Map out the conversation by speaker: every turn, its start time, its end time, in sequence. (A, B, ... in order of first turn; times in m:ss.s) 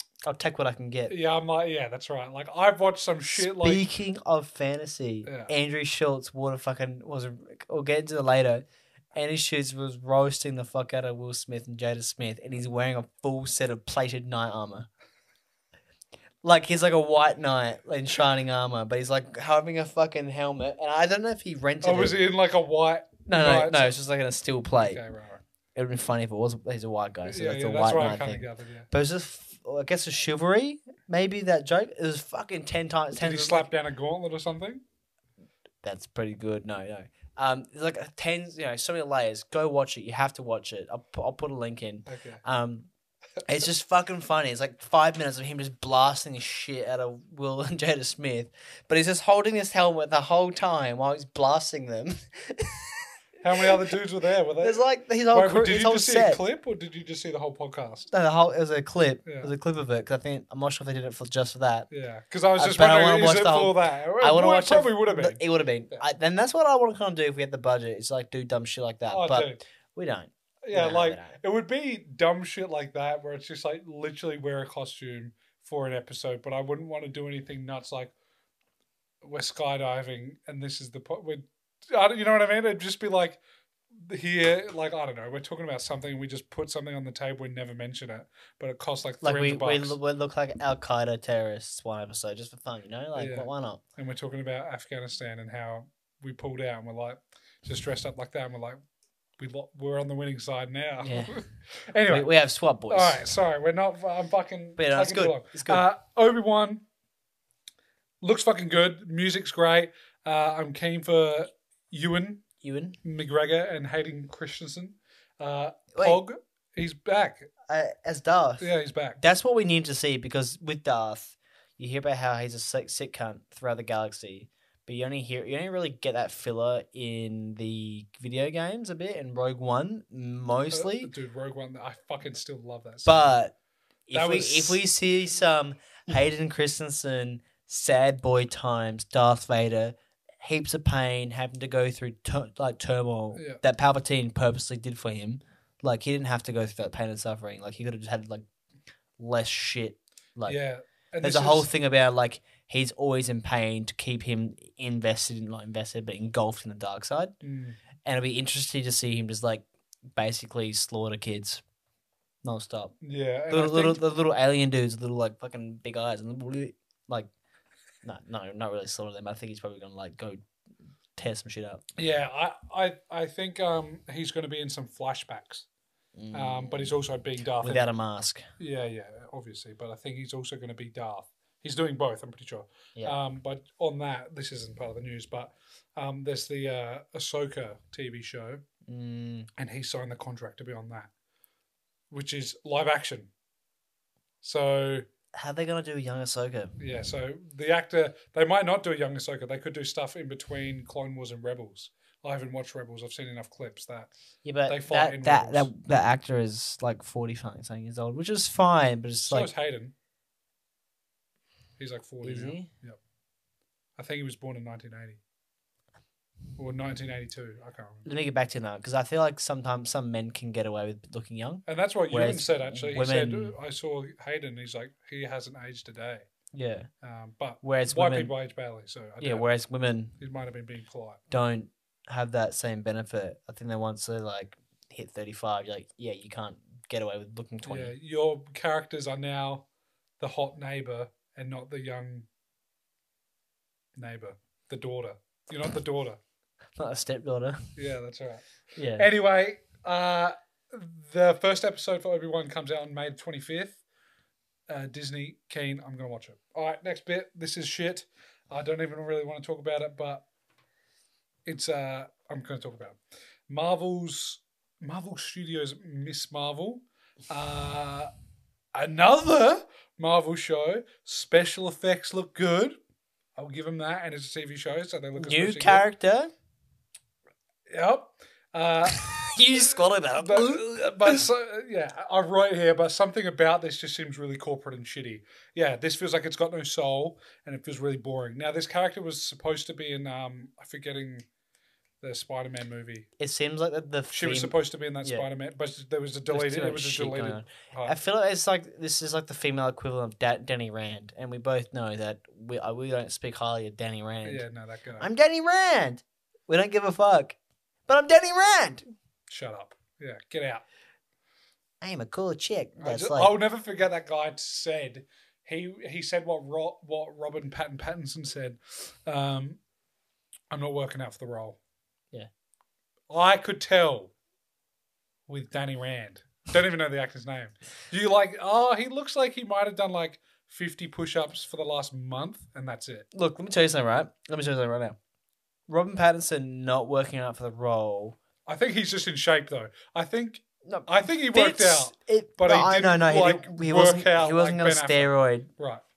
0:00.2-0:01.1 A
0:01.1-0:03.9 B
0:03.3-0:14.9 A
0:05.2-0:05.5 B
0:16.4-0:22.2 A
0:21.8-0:24.0 B
0:23.3-0:25.0 A
0:24.8-0:25.4 B
0:25.8-0:33.7 A
0:27.2-0:28.9 B
0:33.2-0:34.8 B
0:35.8-0:42.9 A
0:42.1-0:42.4 B
0:43.4-0:53.1 A
0:53.4-0:58.1 B
0:54.6-0:56.4 A
0:58.1-1:01.9 A
0:59.2-0:59.5 B
1:01.9-1:06.0 B
1:02.6-1:11.4 A
1:09.1-1:09.6 B
1:10.6-1:18.1 B
1:19.2-1:23.4 B
1:24.0-1:30.0 B
1:29.2-1:33.8 A
1:33.2-1:38.8 B
1:39.4-1:42.3 B
1:41.0-1:41.4 A
1:42.1-1:43.2 A
1:42.9-1:46.8 B
1:44.8-1:45.9 A
1:48.2-1:52.4 B
1:52.6-1:53.0 A
1:53.0-1:57.5 B
1:56.0-1:56.2 A
1:57.7-2:11.1 A
1:58.6-1:59.2 B
2:10.7-2:13.4 B
2:13.0-2:13.5 A
2:14.1-2:28.4 A
2:14.1-2:14.8 B
2:23.4-2:23.6 B
2:29.2-2:30.6 A
2:30.5-2:31.7 B
2:31.2-2:37.3 A
2:37.4-2:37.8 B
2:38.0-2:41.6 A
2:42.4-2:42.9 A
2:43.0-2:44.0 B
2:43.5-2:47.3 A
2:48.0-2:50.4 A
2:51.2-2:51.8 A
2:52.0-2:55.7 B
2:56.2-2:58.4 A
2:56.3-2:57.9 B
2:58.6-3:08.6 B
3:08.9-3:09.5 A
3:09.6-3:11.1 B
3:12.1-3:13.3 B
3:14.4-3:15.0 B
3:15.4-3:16.7 A
3:16.8-3:24.1 B
3:24.4-3:29.5 A
3:24.7-3:25.7 B
3:29.2-3:29.9 B
3:31.8-3:33.0 B
3:32.2-3:32.7 A
3:34.0-3:35.2 B
3:36.6-3:38.1 B
3:38.0-3:43.6 A
3:41.7-3:46.3 B
3:46.5-3:46.9 A
3:47.0-3:49.5 B
3:47.6-3:48.3 A
3:49.2-3:50.2 A
3:50.2-3:51.2 B
3:51.3-3:57.9 A
3:57.6-3:59.6 B
4:00.2-4:02.3 B
4:04.0-4:06.2 B
4:06.8-4:07.7 A
4:07.8-4:08.4 B
4:08.8-4:09.1 A
4:09.0-4:13.8 B
4:14.7-4:20.2 B
4:21.5-4:23.0 B
4:23.5-4:28.1 B
4:28.8-4:32.8 B
4:33.4-4:35.8 B
4:35.2-4:36.3 A
4:37.7-4:39.4 B
4:38.9-4:41.2 A
4:40.2-4:51.2 B
4:52.0-4:53.1 B
4:53.2-4:55.3 A
4:54.1-4:58.0 B
4:56.3-5:04.4 A
5:04.2-5:05.1 B
5:05.0-5:07.4 A
5:07.9-5:08.8 A
5:09.3-5:10.6 B
5:11.8-5:13.3 A
5:12.8-5:19.6 B
5:20.5-5:21.6 B
5:23.1-5:24.1 B
5:25.3-5:33.1 B
5:33.1-5:35.0 A
5:35.7-5:38.2 A
5:38.5-5:45.8 B
5:40.6-5:45.5 A